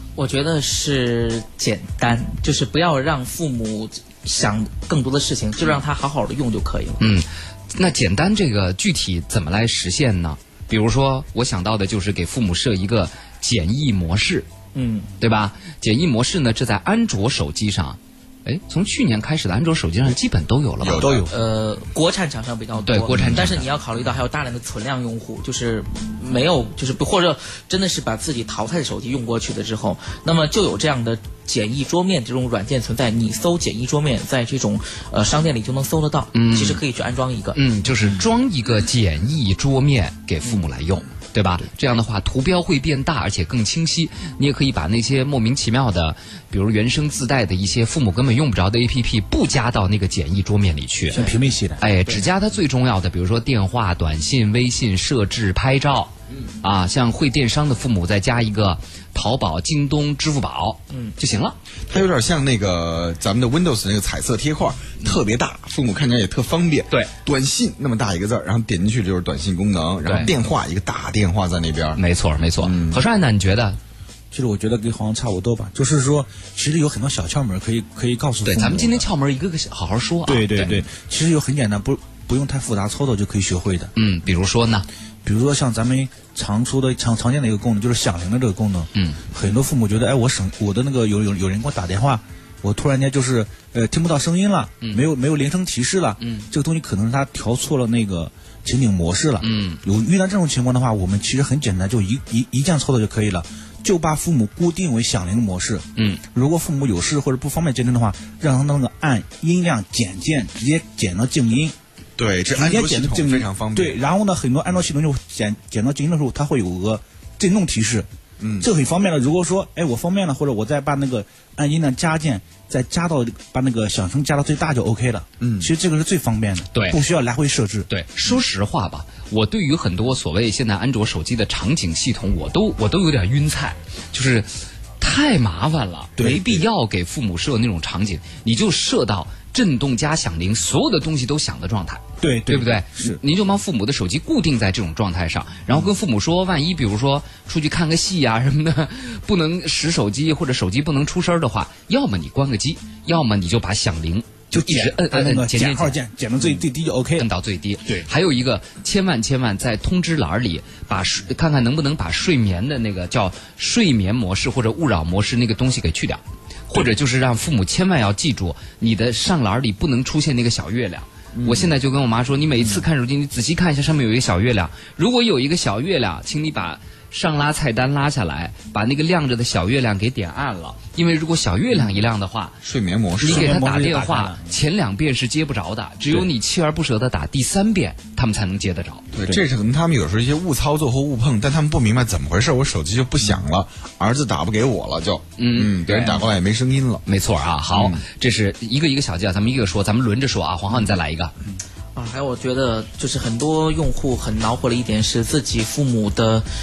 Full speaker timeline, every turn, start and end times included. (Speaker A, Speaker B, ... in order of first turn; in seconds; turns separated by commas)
Speaker A: 0.1-7.0, Speaker B: 7.0-14.5, Speaker A: 14.7-15.1, Speaker B: 15.2-21.3, Speaker C: 20.8-21.3, Speaker D: 21.0-21.2, Speaker A: 21.3-37.6, Speaker B: 22.9-23.6, Speaker C: 23.1-23.4, Speaker B: 36.3-36.8, Speaker B: 37.5-51.2, Speaker D: 51.1-51.8, Speaker B: 51.8-61.6, Speaker A: 60.9-61.1, Speaker C: 61.9-72.0, Speaker B: 70.0-70.3, Speaker B: 72.0-73.8, Speaker C: 72.6-73.0, Speaker D: 74.3-79.1, Speaker B: 78.4-80.8, Speaker D: 80.2-83.9, Speaker B: 84.0-84.8, Speaker D: 85.2-111.7, Speaker B: 88.9-89.2, Speaker B: 96.2-96.5, Speaker B: 99.4-99.8, Speaker B: 106.0-106.2, Speaker C: 112.2-114.0, Speaker D: 112.5-118.1, Speaker C: 118.4-118.7, Speaker D: 118.6-127.9, Speaker C: 125.4-125.7, Speaker B: 126.7-127.0, Speaker B: 127.9-134.5, Speaker B: 135.0-156.0, Speaker D: 136.2-136.6, Speaker D: 142.2-143.2, Speaker D: 154.5-157.3, Speaker B: 157.2-182.6, Speaker C: 171.3-171.7, Speaker C: 182.6-183.6, Speaker D: 183.2-184.6, Speaker B: 183.2-189.1, Speaker C: 189.1-197.0, Speaker B: 195.4-196.2, Speaker B: 197.1-201.3, Speaker C: 197.7-198.0, Speaker A: 201.9-206.4